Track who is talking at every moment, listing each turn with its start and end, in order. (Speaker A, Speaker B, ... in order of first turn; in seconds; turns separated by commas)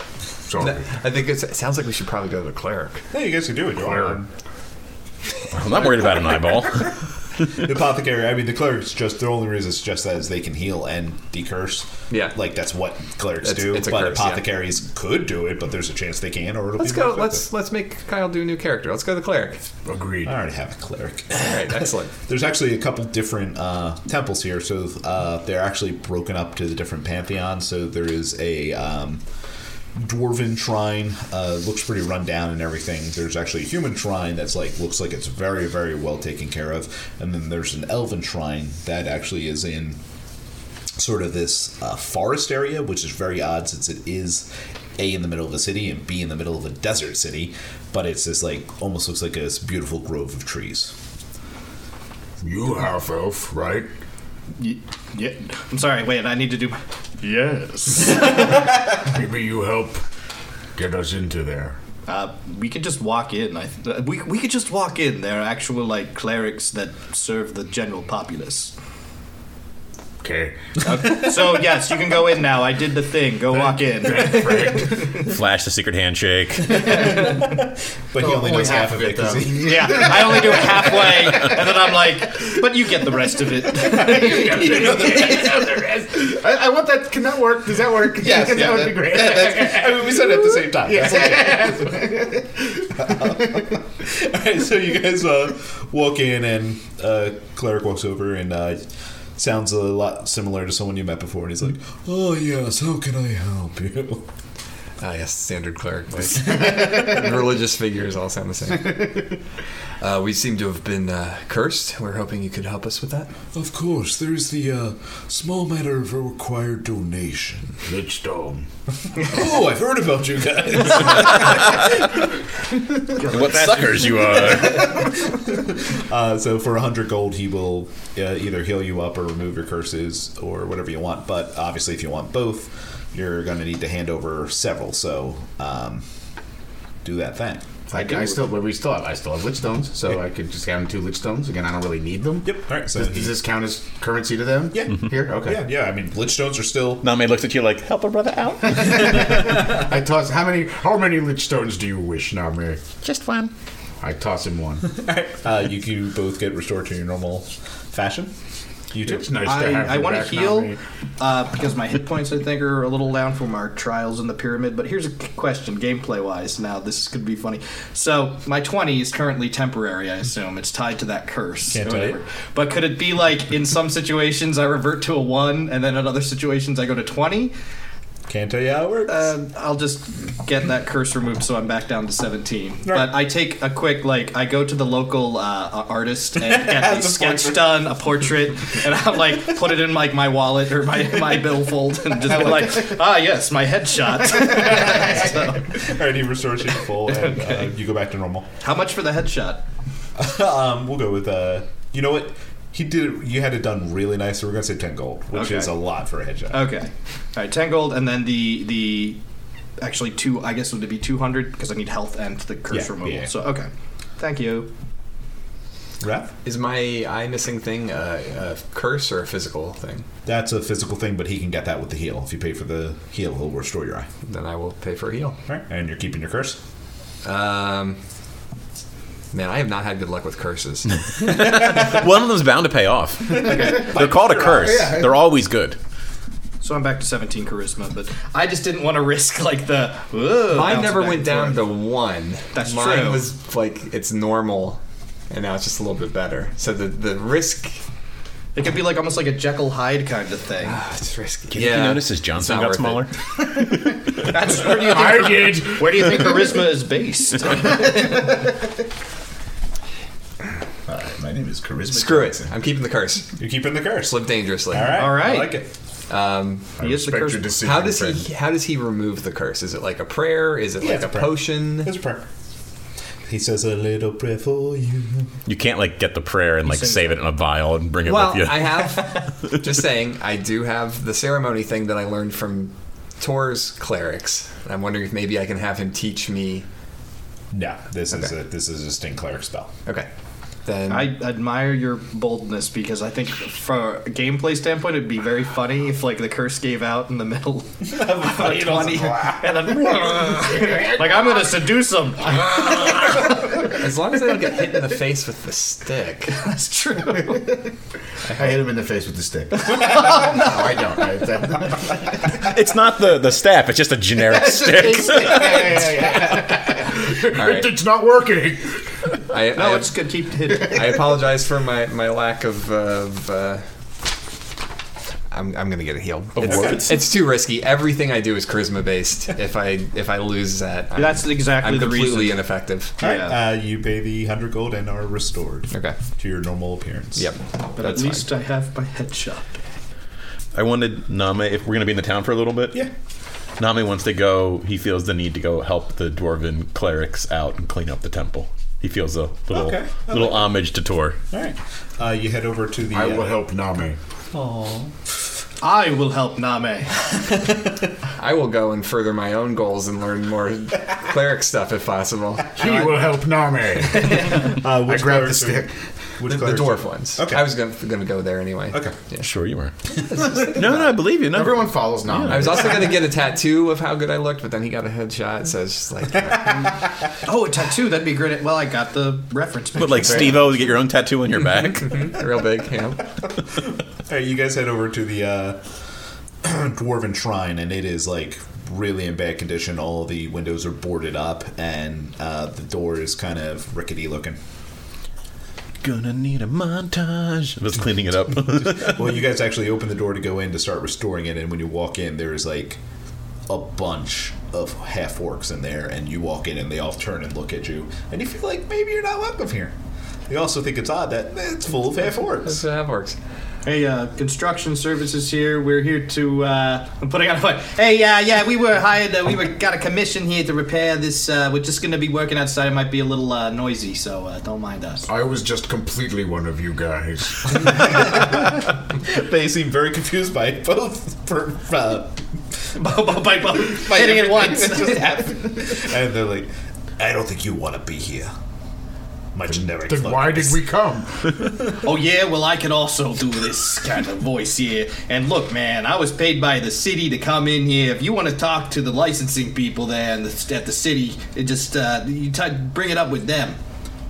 Speaker A: 0.5-0.9, Speaker B: 0.6-3.0, Speaker C: 3.1-4.2, Speaker A: 3.8-4.2, Speaker D: 5.5-6.9, Speaker C: 7.5-17.4, Speaker B: 12.1-12.4, Speaker B: 13.4-14.5, Speaker B: 16.8-19.6, Speaker A: 19.9-20.4, Speaker C: 20.2-29.2, Speaker B: 21.4-22.1, Speaker C: 29.9-40.0, Speaker C: 40.9-50.9, Speaker A: 52.4-53.9, Speaker E: 54.6-56.8, Speaker A: 57.2-60.0, Speaker E: 57.9-58.5, Speaker A: 60.7-61.8, Speaker E: 62.1-68.7, Speaker A: 70.2-70.8, Speaker E: 70.8-75.3, Speaker A: 73.5-75.1, Speaker D: 75.2-77.0, Speaker E: 76.7-77.5, Speaker C: 76.9-80.6, Speaker A: 78.3-81.9, Speaker E: 79.6-84.7, Speaker A: 83.8-93.7, Speaker C: 84.4-85.7, Speaker C: 88.2-92.1, Speaker C: 92.9-98.8, Speaker C: 99.3-104.3, Speaker B: 105.0-109.2, Speaker A: 108.8-109.2, Speaker B: 110.0-113.3, Speaker C: 113.5-117.8, Speaker A: 117.8-118.7, Speaker C: 119.2-121.9, Speaker E: 123.1-124.5, Speaker D: 123.2-125.0, Speaker C: 124.1-136.0, Speaker C: 137.0-138.4, Speaker A: 137.9-145.6, Speaker C: 142.4-143.3, Speaker C: 144.7-147.1, Speaker D: 147.0-149.5, Speaker A: 148.8-152.8, Speaker D: 153.0-153.5, Speaker A: 154.0-154.8, Speaker C: 155.0-158.3, Speaker C: 158.9-159.3, Speaker A: 159.0-160.8, Speaker E: 159.4-177.5, Speaker C: 171.7-172.2, Speaker C: 178.3-179.3, Speaker E: 179.1-195.8, Speaker C: 186.4-187.9, Speaker C: 192.2-192.9, Speaker C: 194.6-198.5, Speaker E: 197.0-197.7, Speaker E: 198.6-199.6, Speaker C: 200.2-206.7, Speaker E: 205.3-205.7, Speaker E: 206.5-209.2, Speaker E: 209.8-214.7, Speaker C: 212.7-213.3, Speaker C: 216.0-216.3, Speaker B: 216.4-220.1, Speaker C: 220.2-224.1, Speaker B: 224.2-225.4, Speaker C: 225.5-226.6, Speaker B: 227.2-228.0, Speaker B: 229.3-231.0, Speaker D: 231.1-235.8, Speaker C: 233.3-234.8, Speaker A: 234.4-235.2, Speaker E: 236.6-241.6, Speaker B: 240.5-247.8, Speaker E: 242.5-243.3, Speaker E: 248.5-250.8, Speaker B: 250.6-253.1, Speaker D: 251.5-253.1, Speaker E: 254.2-258.5, Speaker A: 254.5-256.6, Speaker C: 260.9-262.5, Speaker B: 261.9-263.3, Speaker C: 263.4-264.2, Speaker B: 264.1-265.0, Speaker C: 264.7-265.7, Speaker E: 264.9-265.6, Speaker B: 266.1-266.7, Speaker A: 266.8-268.2, Speaker E: 266.8-267.6, Speaker B: 267.6-271.9, Speaker C: 270.8-272.2, Speaker C: 273.3-275.3, Speaker D: 275.4-279.1, Speaker E: 276.7-277.2, Speaker B: 278.0-286.6, Speaker C: 287.5-289.7, Speaker B: 290.6-291.1, Speaker E: 290.9-303.4, Speaker C: 297.9-299.5, Speaker A: 300.1-301.3, Speaker B: 303.7-306.4, Speaker E: 306.3-307.6, Speaker B: 308.3-308.5, Speaker A: 308.3-312.4, Speaker E: 309.6-310.9, Speaker D: 312.4-315.9, Speaker A: 314.5-318.8, Speaker E: 315.1-315.4, Speaker B: 317.3-317.8, Speaker B: 319.3-319.9, Speaker E: 319.5-321.0, Speaker B: 320.5-323.6, Speaker B: 325.3-333.0, Speaker D: 326.4-327.0, Speaker C: 326.4-326.8, Speaker E: 330.9-332.4, Speaker E: 333.0-333.4, Speaker C: 333.0-337.3, Speaker B: 335.7-336.0, Speaker B: 337.1-338.3, Speaker E: 337.8-339.5, Speaker D: 340.5-342.8, Speaker D: 343.6-351.2, Speaker C: 349.5-350.5, Speaker C: 351.3-353.4, Speaker A: 352.9-354.0, Speaker C: 354.3-354.9, Speaker E: 355.6-357.0, Speaker B: 358.2-362.5, Speaker A: 362.5-365.8, Speaker E: 363.9-364.6, Speaker C: 364.4-367.5, Speaker B: 366.3-369.3, Speaker D: 369.2-369.7, Speaker D: 370.4-372.7, Speaker A: 371.2-372.9, Speaker B: 372.3-376.7, Speaker E: 377.2-380.6, Speaker D: 379.8-382.2, Speaker B: 381.8-383.0, Speaker C: 383.6-385.6, Speaker C: 386.4-394.4, Speaker D: 395.8-399.1, Speaker C: 398.6-402.8, Speaker C: 403.5-409.7, Speaker C: 410.3-412.6, Speaker B: 412.4-413.2, Speaker E: 413.6-425.1, Speaker A: 425.1-428.2, Speaker C: 427.8-428.4, Speaker C: 429.0-432.2, Speaker E: 432.8-435.8, Speaker C: 433.6-438.3, Speaker C: 439.3-440.7, Speaker A: 439.8-441.4, Speaker E: 441.7-453.6